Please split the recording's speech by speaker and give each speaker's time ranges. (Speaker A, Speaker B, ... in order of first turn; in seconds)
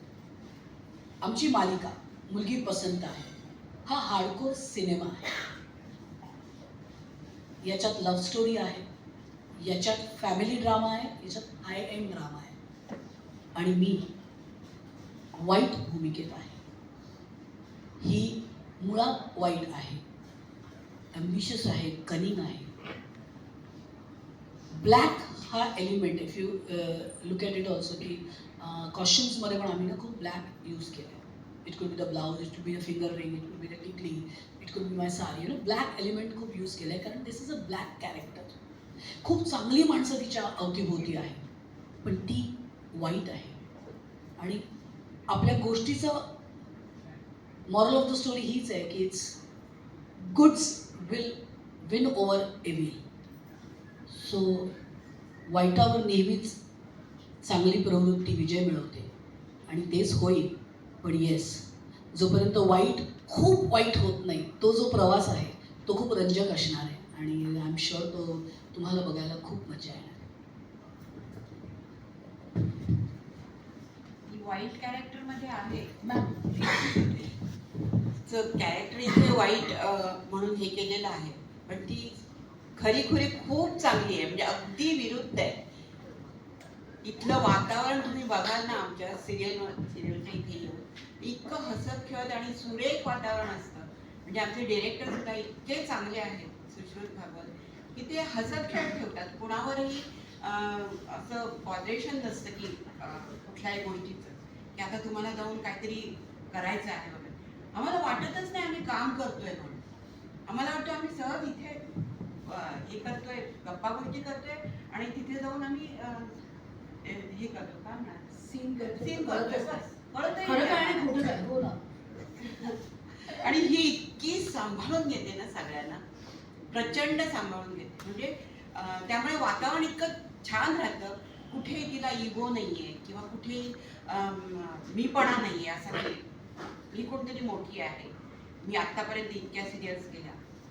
Speaker A: 1.2-3.3, 3.9-5.3, 7.6-8.9, 9.6-12.6, 13.5-14.1, 15.3-16.6, 18.0-20.0, 21.1-22.8, 24.7-38.5, 39.2-41.4, 42.0-43.6, 44.4-44.6, 45.3-46.2, 47.7-49.4, 50.2-53.0, 54.1-54.7, 55.5-56.6, 57.4-59.1, 59.7-70.2, 76.0-76.8, 118.3-119.8, 120.4-121.8
Speaker B: 74.3-75.9, 76.6-77.2, 78.3-82.2, 82.8-85.6, 87.0-109.8, 110.5-111.8, 112.5-116.3, 117.0-118.3, 118.8-121.4, 122.4-126.0, 126.7-136.2, 136.9-138.1, 138.6-140.3